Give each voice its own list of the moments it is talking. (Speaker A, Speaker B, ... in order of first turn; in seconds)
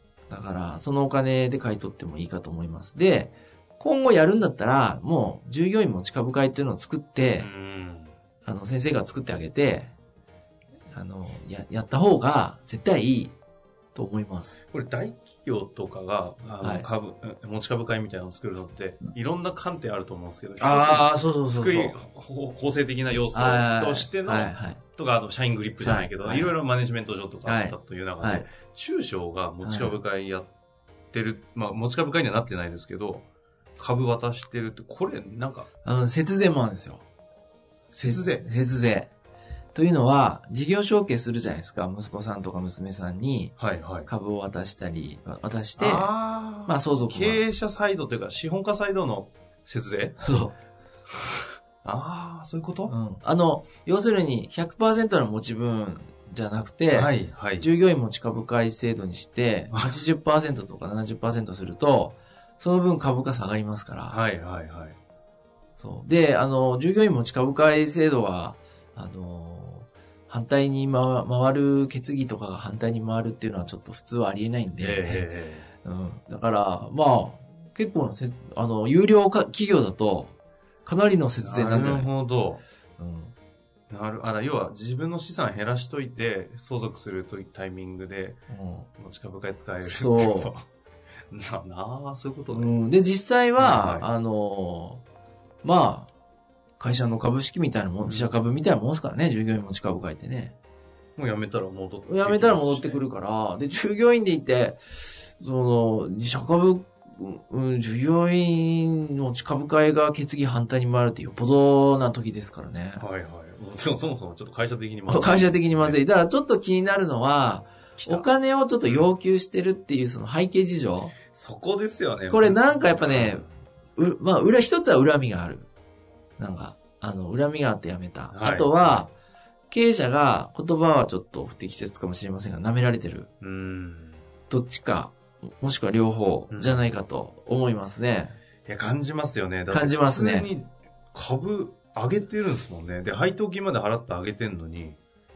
Speaker A: 0.3-7.5, 8.4-9.9, 10.9-13.3, 13.9-14.6, 16.6-16.9, 20.6-22.0, 23.3-24.8, 25.8-26.6, 27.5-28.5, 29.6-30.0, 35.8-37.0, 38.0-39.1, 39.7-43.5, 44.1-46.1, 46.6-47.5, 50.2-50.5, 52.9-64.2, 65.8-75.3, 75.8-80.3, 80.8-82.1, 83.0-83.3, 88.5-88.9, 89.8-90.5, 92.5-95.0, 95.6-96.1, 96.8-100.5, 102.1-113.1, 115.1-121.1, 122.3-123.5, 124.0-125.7, 126.4-129.1, 129.7-133.3, 134.5-138.4, 139.7-140.5
Speaker B: 7.4-8.2, 14.7-30.5, 31.1-33.3, 33.8-35.7, 37.9-38.5, 43.6-44.1, 45.8-50.5, 51.8-52.9, 56.9-57.7, 64.1-65.0, 74.8-75.7, 81.4-82.6, 83.9-88.4, 89.0-90.7, 91.3-92.8, 93.6-94.1, 98.0-98.3, 101.2-103.0, 113.0-116.0, 118.0-118.3, 121.3-123.5, 128.3-128.9, 133.4-134.2, 136.5-136.9, 138.7-145.0